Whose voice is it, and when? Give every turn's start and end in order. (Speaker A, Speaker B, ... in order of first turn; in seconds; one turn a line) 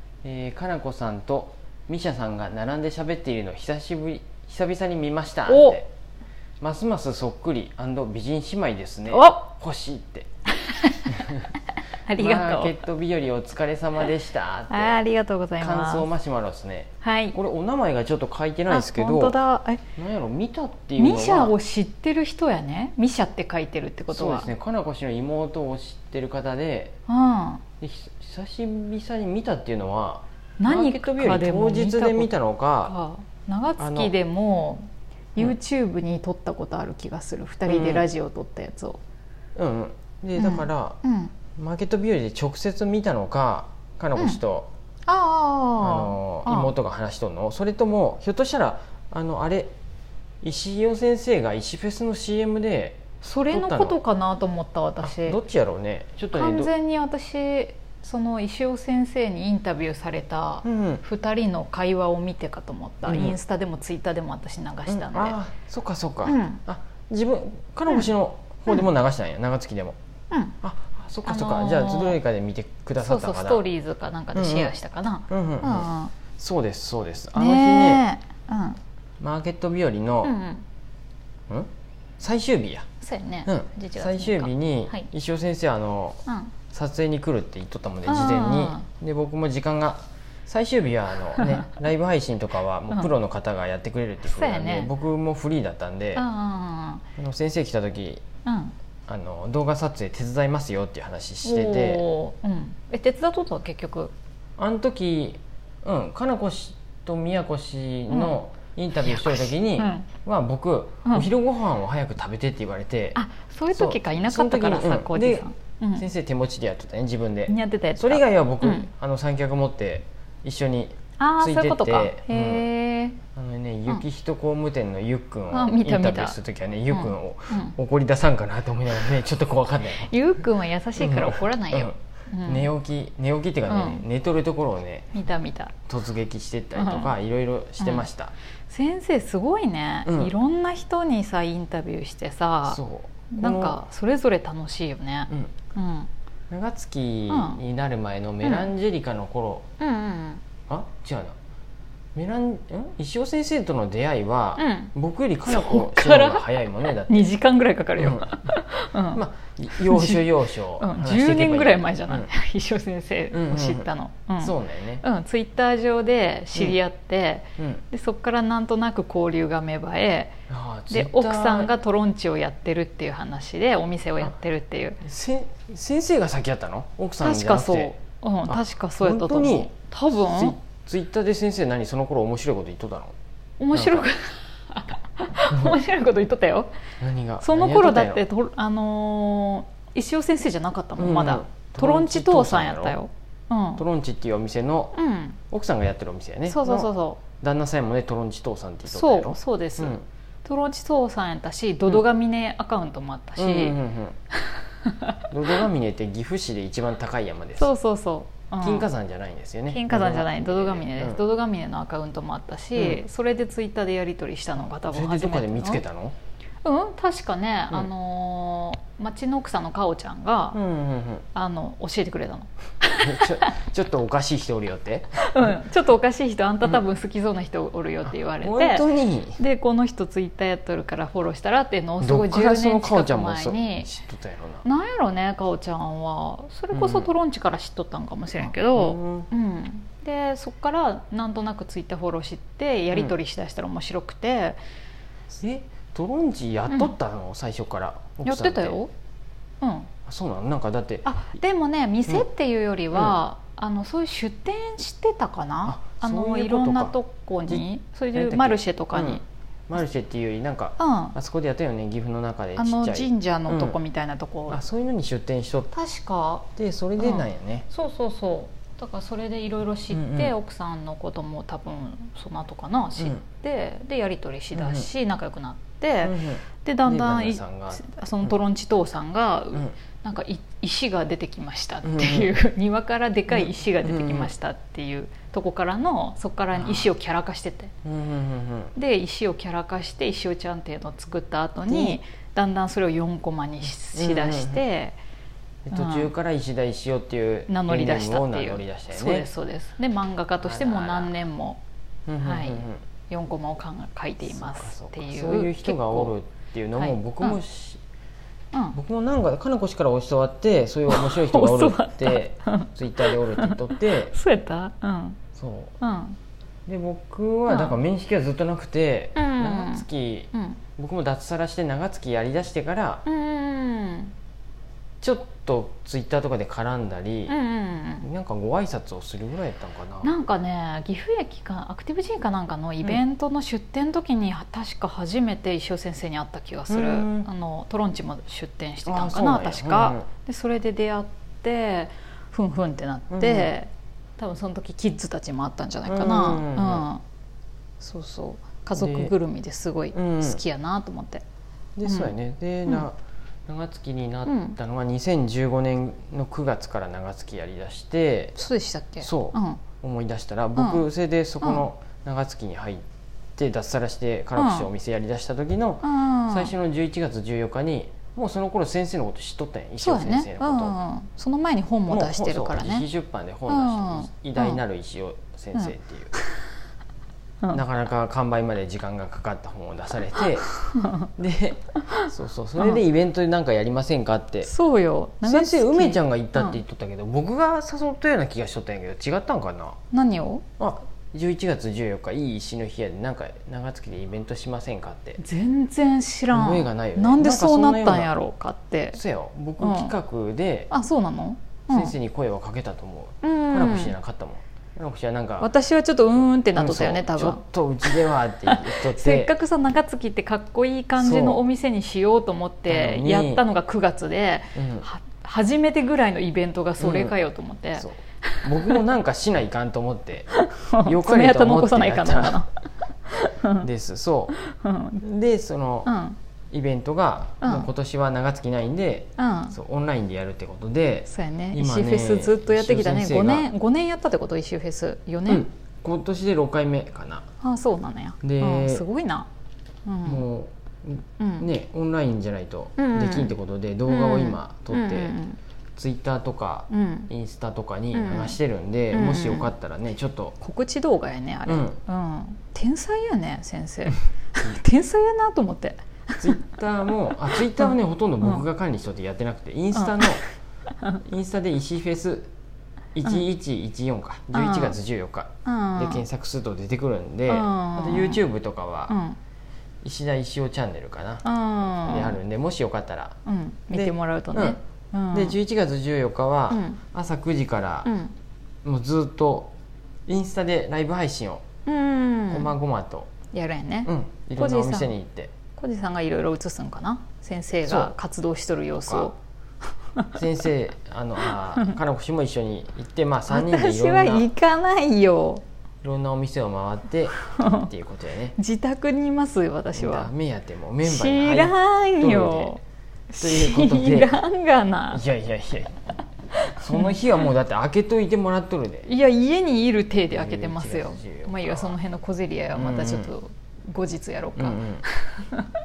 Speaker A: 0.2-5.9
Speaker B: 5.5-5.8
Speaker A: 6.6-10.3
Speaker B: 9.1-9.5
Speaker B: 10.7-11.1
Speaker A: 11.1-11.5
Speaker B: 12.1-12.7
Speaker A: 12.2-15.0
Speaker B: 14.7-16.1
Speaker A: 15.6-19.4
Speaker B: 17.0-17.4
Speaker B: 18.7-19.8
Speaker A: 20.0-21.6
Speaker B: 21.0-24.5
Speaker A: 24.1-27.0
Speaker B: 27.1-27.6
Speaker A: 27.8-32.9
Speaker B: 30.6-32.3
Speaker B: 32.8-39.0
Speaker A: 33.8-34.1
Speaker A: 37.7-38.0
Speaker A: 39.6-41.0
Speaker B: 40.4-41.3
Speaker A: 41.6-44.7
Speaker B: 45.1-46.7
Speaker A: 45.8-49.7
Speaker A: 50.4-54.0
Speaker B: 53.2-55.4
Speaker A: 55.0-56.7
Speaker B: 56.3-65.4
Speaker A: 60.6-61.0
Speaker A: 63.1-63.4
Speaker A: 64.9-70.0
Speaker B: 66.2-66.6
Speaker B: 70.3-70.6
Speaker A: 70.6-73.6
Speaker B: 71.2-72.2
Speaker B: 73.0-76.1
Speaker A: 74.3-74.8
Speaker A: 75.3-78.1
Speaker B: 77.3-78.8
Speaker A: 79.2-80.3
Speaker B: 80.2-80.7
Speaker A: 81.5-82.9
Speaker B: 83.0-85.1
Speaker A: 83.5-96.2
Speaker B: 86.3-86.5
Speaker B: 88.1-88.8
Speaker B: 94.2-94.9
Speaker B: 96.2-97.1
Speaker A: 97.2-98.2
Speaker B: 98.5-98.8
Speaker A: 99.1-102.0
Speaker B: 101.4-104.1
Speaker A: 104.6-113.2
Speaker B: 108.1-108.4
Speaker B: 109.1-110.1
Speaker B: 113.2-116.1
Speaker A: 113.7-122.7
Speaker B: 117.5-118.9
Speaker B: 121.2-123.2
Speaker A: 123.3-130.1
Speaker B: 125.5-126.4
Speaker B: 126.9-127.8
Speaker B: 129.9-132.7
Speaker A: 131.0-135.1
Speaker B: 133.7-134.1
Speaker B: 135.1-135.7
Speaker A: 135.9-138.3
Speaker B: 136.8-137.1
Speaker B: 137.8-138.1
Speaker B: 138.7-142.8
Speaker A: 140.1-140.3
Speaker A: 142.7-143.8
Speaker B: 143.3-146.1
Speaker A: 145.3-145.5
Speaker A: 146.5-149.7
Speaker B: 147.3-147.6
Speaker B: 148.4-148.7
Speaker B: 149.8-150.4
Speaker A: 150.7-151.4
Speaker A: 152.2-157.3
Speaker B: 154.6-154.9
Speaker B: 155.5-159.2
Speaker A: 158.0-158.3
Speaker A: 159.1-162.3
Speaker B: 159.8-170.4
Speaker A: 163.3-163.9
Speaker A: 164.4-165.0
Speaker A: 167.6-167.8
Speaker A: 170.5-171.7
Speaker B: 170.9-175.0
Speaker A: 175.0-183.2
Speaker B: 177.2-180.6
Speaker B: 183.6-186.7
Speaker A: 183.7-184.1
Speaker A: 187.0-188.2
Speaker B: 187.4-193.8
Speaker A: 191.0-193.0
Speaker A: 193.8-195.0
Speaker B: 194.9-195.4
Speaker A: 195.5-200.0
Speaker B: 196.5-197.2
Speaker B: 198.8-203.8
Speaker A: 203.4-204.2
Speaker B: 204.6-205.2
Speaker A: 205.3-207.7
Speaker B: 207.6-208.9
Speaker A: 208.6-211.2
Speaker B: 209.7-215.8
Speaker A: 212.8-213.0
Speaker A: 214.8-216.2
Speaker B: 216.6-220.6
Speaker A: 220.5-221.3
Speaker B: 221.3-223.5
Speaker A: 223.0-225.6
Speaker B: 225.2-228.9
Speaker A: 228.4-229.4
Speaker B: 229.4-233.9
Speaker A: 232.0-234.7
Speaker B: 234.7-244.6
Speaker A: 236.7-237.1
Speaker A: 238.4-239.3
Speaker A: 245.3-248.8
Speaker B: 246.7-246.9
Speaker B: 248.2-248.9
Speaker B: 249.6-249.9
Speaker A: 250.1-251.1
Speaker B: 251.1-259.2
Speaker A: 255.7-257.0
Speaker A: 257.5-263.8
Speaker B: 260.8-261.1
Speaker B: 262.6-264.6
Speaker A: 264.5-265.7
Speaker B: 265.7-266.5
Speaker A: 266.6-267.7
Speaker B: 267.0-287.7
Speaker A: 269.9-270.3
Speaker A: 273.0-273.2
Speaker A: 274.6-274.9
Speaker A: 276.0-278.3
Speaker A: 281.8-282.3
Speaker A: 283.3-284.3
Speaker A: 286.5-286.9
Speaker A: 287.9-288.7
Speaker B: 288.8-295.0
Speaker A: 291.7-292.0
Speaker A: 293.9-294.6
Speaker A: 295.7-299.3
Speaker B: 295.7-296.1
Speaker B: 297.5-301.6
Speaker A: 300.4-301.1
Speaker A: 302.1-302.8
Speaker B: 302.2-306.1
Speaker A: 304.3-307.8
Speaker B: 306.8-307.4
Speaker A: 308.7-314.1
Speaker B: 310.9-315.2
Speaker A: 315.4-315.8
Speaker B: 315.8-316.2
Speaker A: 316.7-323.1
Speaker B: 317.5-317.8
Speaker B: 319.2-320.6
Speaker B: 323.1-324.1
Speaker A: 325.0-327.4
Speaker B: 327.3-328.1
Speaker A: 328.0-330.1
Speaker B: 330.0-347.0
Speaker A: 336.7-337.3
Speaker A: 338.9-340.1
Speaker A: 343.1-343.5
Speaker A: 345.9-346.9
Speaker B: 347.8-351.2
Speaker A: 348.8-349.1
Speaker A: 349.9-350.4
Speaker A: 351.8-358.4
Speaker B: 351.9-352.1
Speaker B: 354.3-354.6
Speaker B: 358.4-359.6
Speaker A: 359.0-362.9
Speaker B: 360.6-360.8
Speaker A: 363.4-370.8
Speaker B: 364.4-364.7
Speaker B: 365.8-366.5
Speaker B: 369.8-372.9
Speaker A: 371.9-376.1
Speaker B: 373.5-374.6
Speaker A: 377.5-380.5
Speaker B: 380.5-381.1
Speaker A: 381.1-384.5
Speaker B: 384.4-386.6
Speaker A: 385.2-389.8
Speaker B: 389.9-390.4
Speaker A: 390.6-395.2
Speaker B: 395.2-399.0
Speaker A: 396.3-398.1
Speaker A: 398.9-400.7
Speaker B: 399.6-399.9
Speaker B: 400.7-401.9
Speaker A: 401.7-405.5
Speaker B: 403.2-403.9
Speaker B: 405.4-418.8
Speaker A: 406.5-409.3
Speaker A: 411.0-411.4
Speaker A: 412.7-413.4
Speaker A: 414.6-414.9
Speaker A: 416.8-417.1
Speaker A: 417.8-422.4
Speaker B: 420.3-422.5
Speaker B: 423.1-423.7
Speaker A: 423.6-424.4
Speaker B: 424.3-425.0
Speaker A: 425.0-425.9
Speaker B: 425.9-426.2
Speaker A: 426.5-433.5
Speaker B: 427.4-427.7
Speaker B: 429.2-429.6
Speaker B: 431.1-435.5
Speaker A: 435.3-437.3
Speaker B: 437.4-439.3
Speaker A: 438.2-438.9
Speaker B: 439.9-440.2
Speaker A: 440.0-445.1
Speaker B: 441.2-441.5
Speaker B: 442.8-443.3
Speaker B: 443.9-445.4
Speaker A: 445.8-450.4
Speaker B: 446.7-447.1
Speaker B: 447.9-448.4
Speaker B: 448.9-449.5
Speaker B: 450.4-456.4
Speaker A: 451.5-451.8
Speaker A: 456.2-460.2
Speaker B: 457.3-457.7
Speaker B: 459.7-460.3
Speaker A: 461.0-462.3
Speaker A: 462.9-469.0
Speaker B: 464.3-464.8
Speaker B: 465.4-466.1
Speaker B: 467.3-468.2
Speaker B: 468.9-469.2
Speaker A: 469.8-471.2
Speaker B: 471.2-472.2
Speaker A: 471.8-473.2
Speaker B: 473.3-475.4
Speaker A: 473.7-474.6
Speaker A: 475.1-477.9
Speaker B: 476.5-476.8
Speaker B: 477.9-478.1
Speaker A: 478.6-479.5
Speaker A: 480.1-481.4
Speaker B: 481.7-482.5
Speaker A: 482.3-483.1
Speaker B: 483.3-485.0
Speaker A: 483.9-485.3
Speaker B: 485.6-489.1
Speaker A: 487.6-487.9
Speaker A: 488.8-489.1
Speaker A: 490.1-494.3
Speaker B: 491.3-491.8
Speaker B: 493.3-495.4
Speaker A: 495.8-498.4
Speaker B: 497.3-497.7
Speaker B: 498.4-500.1
Speaker A: 499.8-502.6
Speaker B: 500.8-505.0
Speaker A: 503.2-504.2
Speaker A: 504.9-505.8
Speaker B: 506.5-507.0
Speaker A: 506.5-508.9
Speaker B: 508.9-515.5
Speaker A: 510.1-511.8
Speaker A: 512.5-513.1
Speaker A: 514.4-514.8